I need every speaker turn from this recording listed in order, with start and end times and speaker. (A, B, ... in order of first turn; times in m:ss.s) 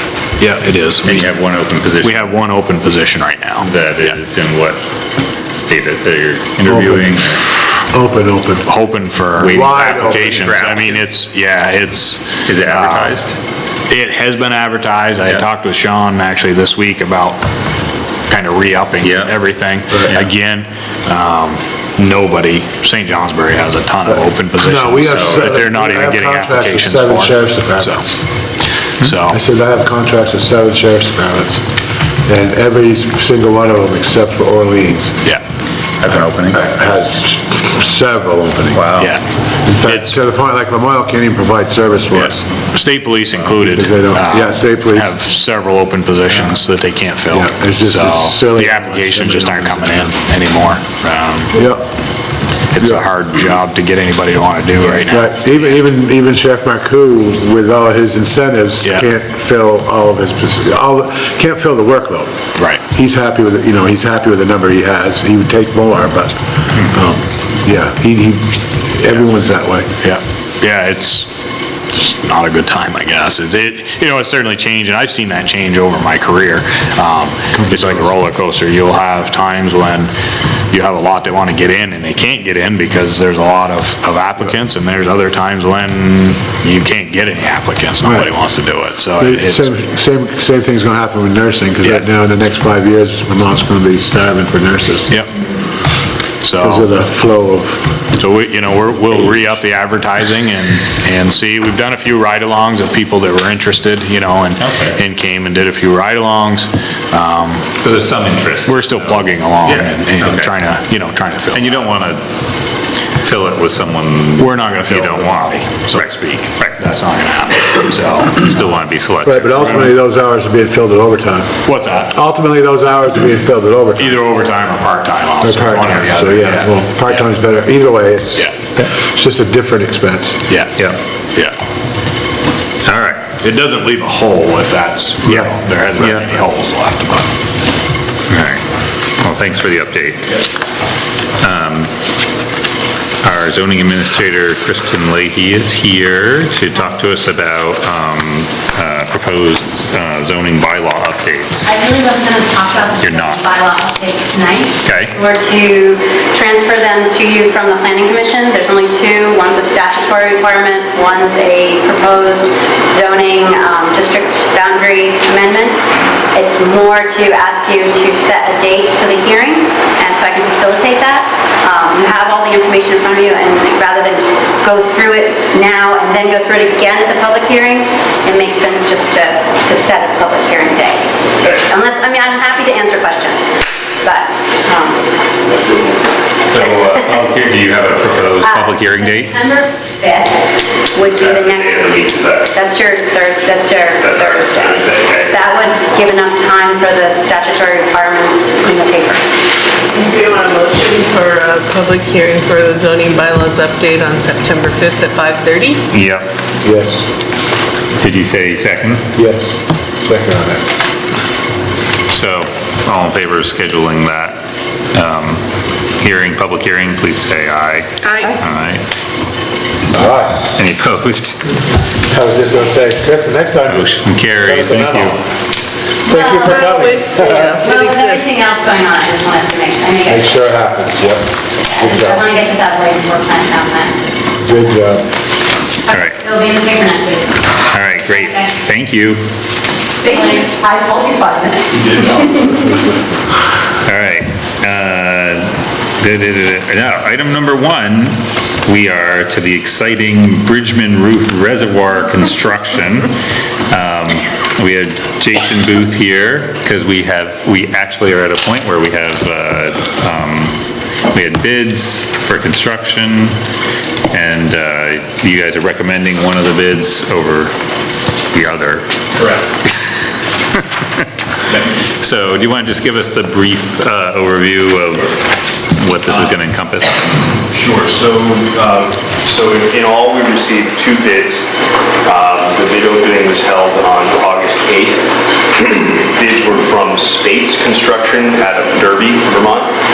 0:00.4-0:01.3 A
0:01.0-0:02.3 B
0:02.0-0:04.2 A
0:03.6-0:04.8 B
0:05.5-0:07.4 B
0:06.8-0:07.0 C
0:07.9-0:08.7 C
0:08.6-0:13.2 A
0:09.4-0:11.1 B
0:09.4-0:10.3 C
0:12.4-0:13.4 B
0:13.9-0:17.4 A
0:18.3-0:28.0 A
0:19.0-0:19.4 B
0:20.0-0:20.3 B
0:24.1-0:28.1 C
0:29.0-0:29.4 A
0:29.3-0:31.6 C
0:32.3-0:35.2 C
0:36.0-0:36.6 B
0:36.5-0:38.8 C
0:38.7-0:39.1 B
0:39.6-0:42.4 C
0:39.8-0:40.2 A
0:42.2-0:51.6 A
0:43.7-0:45.2 C
0:47.3-0:50.1 C
0:51.5-0:51.8 C
0:52.7-0:55.8 A
0:52.8-0:53.0 C
0:54.8-1:02.3 C
1:02.6-1:02.8 A
1:02.8-1:06.4 C
1:06.9-1:09.9 C
1:10.0-1:11.3 A
1:11.9-1:20.1 A
1:17.7-1:18.0 C
1:20.7-1:29.7 A
1:28.0-1:28.3 C
1:29.2-1:35.2 C
1:36.4-1:36.9 A
1:36.6-1:37.8 C
1:38.2-1:47.7 A
1:44.6-1:45.0 B
1:47.8-1:50.5 B
1:48.7-1:51.8 A
1:51.5-1:52.2 B
1:53.2-1:56.8 B
1:54.4-1:58.4 A
1:58.4-1:59.9 B
1:59.2-2:01.5 C
2:01.6-2:02.2 A
2:02.1-2:04.2 C
2:04.0-2:07.3 A
2:05.4-2:10.4 C
2:10.5-2:10.8 A
2:12.8-2:13.2 B
2:13.4-2:17.3 A
2:16.0-2:16.3 B
2:18.3-2:18.6 B
2:19.2-2:20.3 B
2:21.4-2:21.9 B
2:23.2-2:31.7 B
2:31.7-2:45.8 D
2:33.0-2:33.4 B
2:34.8-2:35.1 B
2:46.3-3:03.5 D
3:04.0-3:05.1 D
3:05.5-3:06.0 E
3:06.4-3:09.3 B
3:06.7-3:07.1 D
3:08.4-3:19.2 D
3:11.1-3:12.5 E
3:14.0-3:15.3 E
3:19.9-3:25.8 F
3:25.9-3:26.3 B
3:26.6-3:27.1 C
3:28.0-3:29.0 B
3:29.2-3:30.6 C
3:32.1-3:34.4 B
3:34.9-3:35.4 B
3:36.0-3:38.8 B
3:38.0-3:38.4 F
3:39.9-3:40.5 C
3:40.6-3:41.6 B
3:42.1-3:45.2 C
3:43.7-3:45.2 B
3:46.1-3:47.6 C
3:46.1-3:48.4 F
3:47.6-3:50.3 D
3:50.1-3:52.2 C
3:51.7-3:54.0 D
3:54.4-3:55.0 C
3:55.9-3:57.6 D
3:55.9-3:56.2 B
3:57.7-3:59.2 B
3:58.1-3:58.6 D
4:00.0-4:02.6 D
4:03.8-4:13.1 B
4:13.7-4:20.6 B
4:21.1-4:23.4 B
4:24.1-4:27.5 B
4:28.3-4:28.9 B
4:31.9-4:35.2 B
4:35.8-4:37.1 B
4:36.1-4:36.3 E
4:37.5-4:41.4 E
4:42.1-4:45.1 E
4:45.6-4:49.7 E